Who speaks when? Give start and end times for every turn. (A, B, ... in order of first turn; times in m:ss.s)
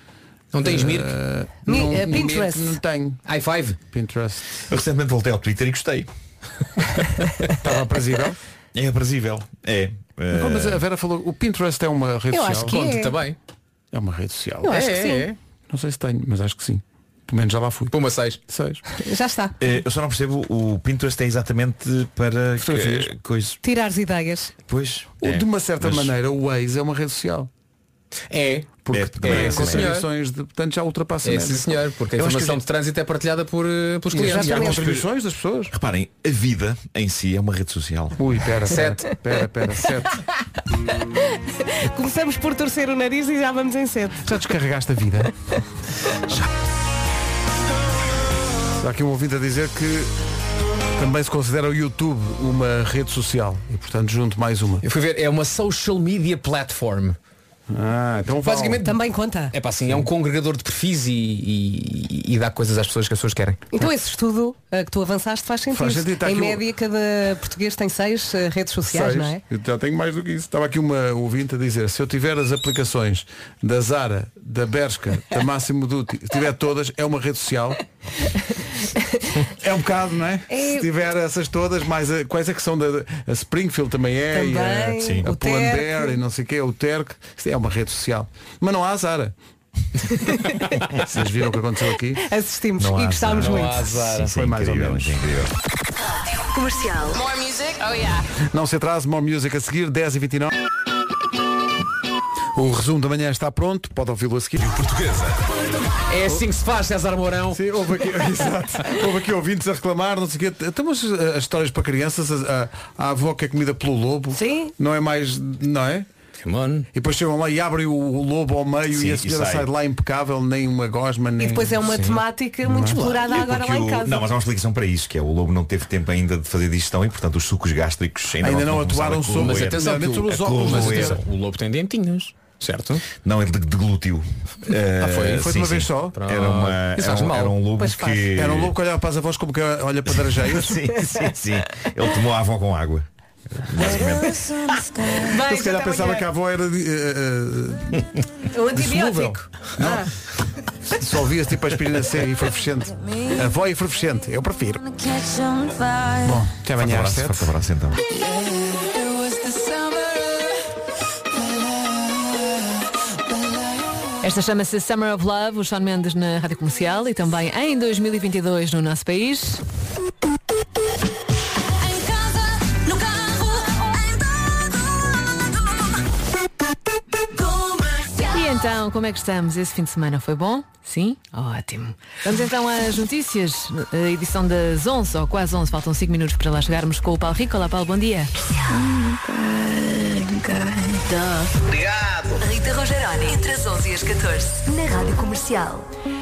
0:00.5-0:01.1 A
0:00.6-0:03.3 B
0:01.7-0:02.8 C
0:03.3-0:03.8 A
0:03.9-0:04.5 B
0:04.7-0:06.1 D
0:07.6-0:08.4 B
0:08.7-0:10.8 D
0:10.3-0:12.8 B
0:12.3-0:13.1 C
0:12.6-0:13.4 A
0:13.9-0:14.8 B
0:14.6-0:15.3 C
0:14.7-0:15.4 A
0:15.7-0:17.9 B
0:17.9-0:18.4 A
0:18.5-0:18.8 B
0:19.0-0:19.6 C
0:19.6-0:23.6 D
0:22.6-0:23.1 B
0:23.6-0:24.5 C
0:24.7-0:26.1 D
0:25.2-0:27.5 B
0:28.3-0:30.1 A
0:28.9-0:31.8 B
0:28.9-0:30.0 D
0:31.2-0:34.8 A
0:34.1-0:35.7 B
0:34.3-0:35.0 D
0:35.7-0:38.2 D
0:38.2-0:40.2 B
0:38.7-0:39.2 A
0:41.7-0:44.5 C
0:44.2-0:45.3 B
0:48.8-0:50.1 B
0:50.9-0:54.8 B
0:54.8-0:57.2 A
0:57.7-0:58.9 B
0:58.4-0:59.0 A
0:58.8-0:59.5 C
0:59.5-1:03.7 A
1:03.7-1:09.4 C
1:05.7-1:06.7 B
1:08.9-1:17.8 B
1:19.5-1:29.4 B
1:20.5-1:20.9 C
1:24.3-1:26.2 C
1:25.0-1:25.3 D
1:31.0-1:32.2 B
1:32.2-1:33.9 C
1:32.8-1:35.5 D
1:33.4-1:34.4 A
1:34.4-1:35.3 B
1:36.5-1:37.2 C
1:38.4-1:40.6 B
1:42.6-1:44.7 B
1:46.1-1:47.6 A
1:47.5-1:56.1 B
1:54.3-1:54.7 C
1:56.4-1:56.9 A
1:56.9-2:01.8 B
1:58.9-1:59.7 D
2:01.4-2:04.3 C
2:01.8-2:02.2 D
2:02.7-2:03.0 B
2:02.9-2:11.2 D
2:08.4-2:11.2 B
2:09.4-2:13.1 A
2:13.2-2:18.7 D
2:15.0-2:15.5 A
2:15.1-2:16.2 B
2:16.2-2:17.6 A
2:17.8-2:18.3 C
2:18.3-2:20.9 B
2:20.6-2:23.1 D
2:23.6-2:24.8 D
2:25.0-2:26.3 C
2:25.3-2:28.1 B
2:28.5-2:30.1 C
2:28.7-2:30.1 B
2:30.9-2:35.5 B
2:36.2-2:37.6 B
2:36.8-2:38.0 D
2:44.2-2:49.6 E
2:58.3-3:08.3 E
3:09.4-3:11.6 E
3:12.4-3:14.7 E
3:12.4-3:13.6 C
3:14.6-3:15.8 C